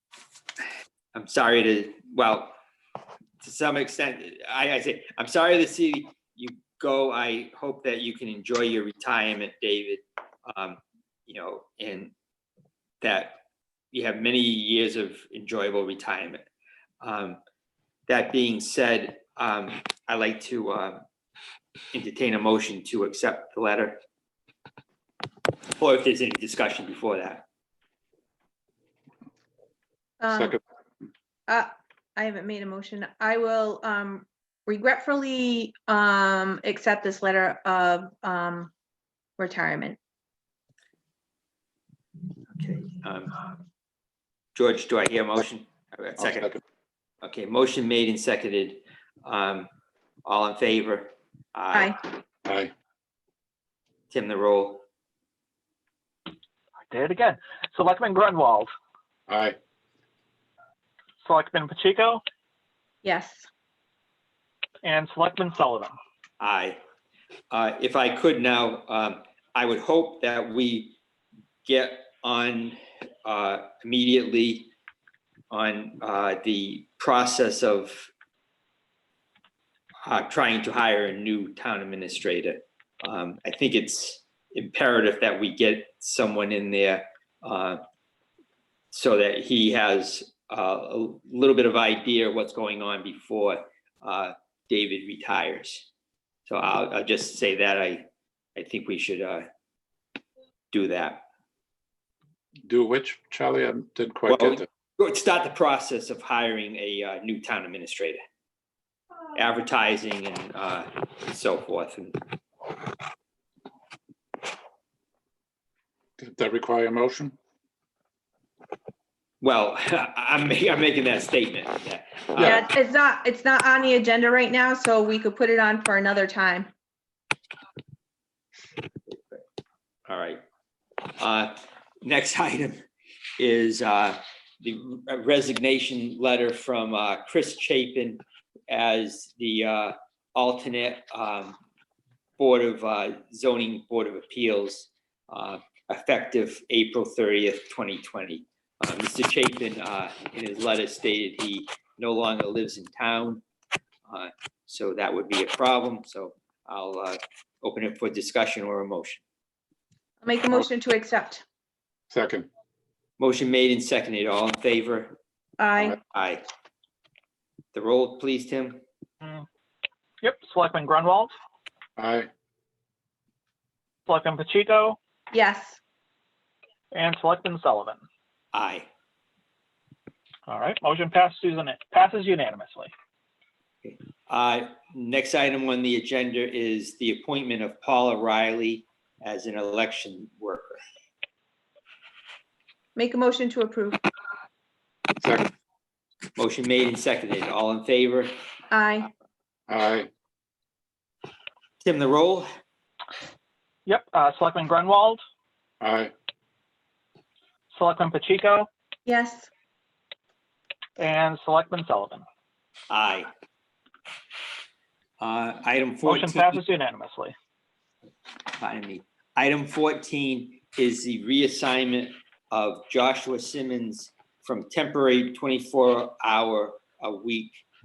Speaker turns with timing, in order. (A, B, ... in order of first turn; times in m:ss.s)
0:01.1-0:02.6 A
0:03.4-0:12.1 A
0:13.0-0:16.4 A
0:17.0-0:17.4 A
0:18.1-0:21.0 A
0:21.9-0:24.0 A
0:25.7-0:27.4 A
0:30.2-0:30.6 B
0:30.3-0:30.6 C
0:31.5-0:38.7 B
0:39.4-0:40.0 B
0:42.5-0:43.4 A
0:44.6-0:46.6 A
0:46.2-0:46.6 C
0:47.2-0:49.7 A
0:50.2-0:52.0 A
0:51.7-0:52.0 B
0:52.4-0:52.7 C
0:54.1-0:54.8 A
0:56.9-0:58.7 D
0:59.3-0:59.6 C
1:01.2-1:02.2 D
1:03.0-1:03.5 B
1:04.8-1:06.0 D
1:06.4-1:06.8 A
1:07.5-1:11.0 A
1:11.6-1:14.7 A
1:15.5-1:18.1 A
1:20.0-1:27.8 A
1:28.9-1:35.9 A
1:36.5-1:39.5 A
1:40.7-1:41.2 A
1:42.7-1:44.6 C
1:44.3-1:48.2 A
1:49.3-1:52.2 A
1:56.2-1:57.4 C
1:59.4-2:02.7 A
2:02.4-2:06.7 B
2:09.1-2:09.4 A
2:10.1-2:10.4 A
2:11.1-2:12.8 A
2:13.4-2:21.6 A
2:22.4-2:33.4 A
2:34.1-2:39.2 A
2:40.2-2:41.4 B
2:42.1-2:42.5 C
2:43.2-2:45.2 A
2:45.6-2:46.0 B
2:46.1-2:46.4 A
2:47.7-2:48.8 A
2:50.2-2:51.3 D
2:52.0-2:52.3 C
2:54.1-2:55.0 D
2:55.3-2:55.8 B
2:56.9-2:58.0 D
2:58.5-2:58.9 A
3:00.5-3:02.9 D
3:03.8-3:10.8 A
3:13.0-3:14.0 B
3:15.2-3:15.5 C
3:16.4-3:18.3 A
3:18.7-3:19.1 B
3:19.7-3:20.1 C
3:21.8-3:22.5 A
3:23.9-3:25.2 D
3:25.8-3:26.1 C
3:27.7-3:28.7 D
3:29.1-3:29.5 B
3:31.0-3:32.2 D
3:32.9-3:33.3 A
3:35.2-3:36.6 A
3:36.0-3:37.3 D
3:38.6-3:47.6 A